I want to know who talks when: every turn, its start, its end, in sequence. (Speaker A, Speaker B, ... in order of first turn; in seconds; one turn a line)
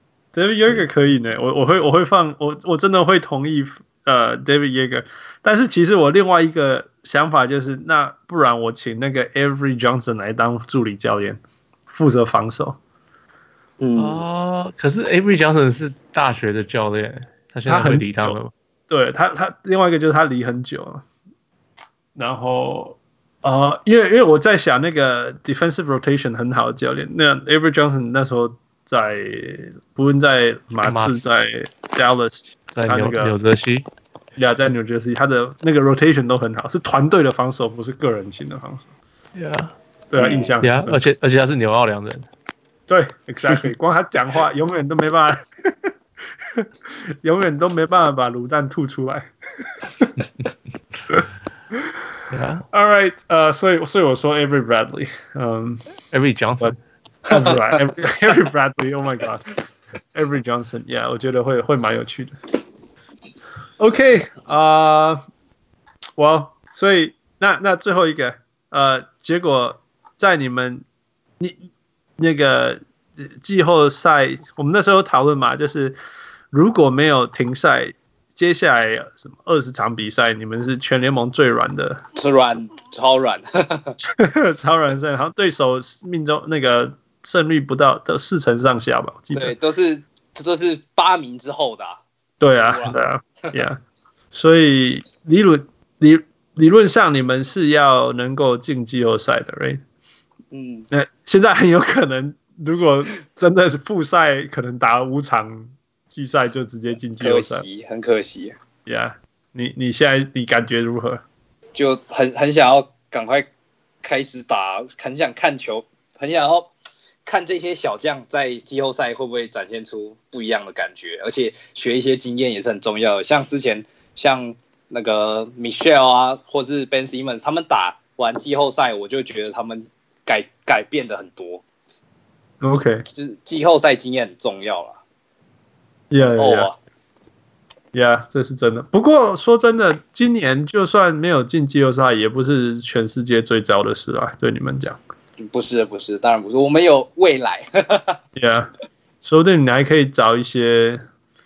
Speaker A: 0.3-12.8
Speaker B: 13.8-14.2
Speaker C: 14.0-18.5
Speaker A: 17.6-18.4
Speaker A: 18.9-21.0
Speaker A: 22.1-33.4
Speaker C: 30.9-31.2
Speaker C: 32.7-33.9
Speaker A: 34.4-38.9
Speaker C: 39.4-39.7
Speaker A: 40.1-41.0
Speaker B: 40.2-40.5
Speaker C: 40.6-42.3
Speaker A: 42.9-45.9
Speaker A: 46.5-50.1
Speaker C: 52.3-52.6
Speaker A: 52.7-55.8
Speaker C: 56.1-56.8
Speaker A: 57.3-59.5
Speaker B: 57.3-57.6
Speaker A: 60.1-62.4
Speaker A: 63.8-65.2
Speaker A: 66.2-70.8
Speaker A: 71.4-71.6
Speaker A: 72.2-76.0
Speaker A: 76.5-82.0
Speaker B: 82.1-84.0
Speaker A: 84.0-89.5
Speaker B: 89.3-93.6
Speaker A: 92.4-93.8
Speaker A: 94.3-99.8
Speaker B: 100.5-100.9
Speaker A: 100.9-107.7
Speaker B: 107.2-108.5
Speaker A: 108.8-111.2
Speaker B: 111.7-113.5
Speaker B: 114.0-116.7
Speaker B: 117.2-131.6
Speaker A: 132.6-133.0
Speaker B: 133.1-135.0
Speaker A: 136.1-136.7
Speaker B: 136.2-136.8
Speaker A: 137.9-145.0
Speaker B: 145.4-148.2
Speaker A: 148.3-148.7
Speaker A: 149.2-151.0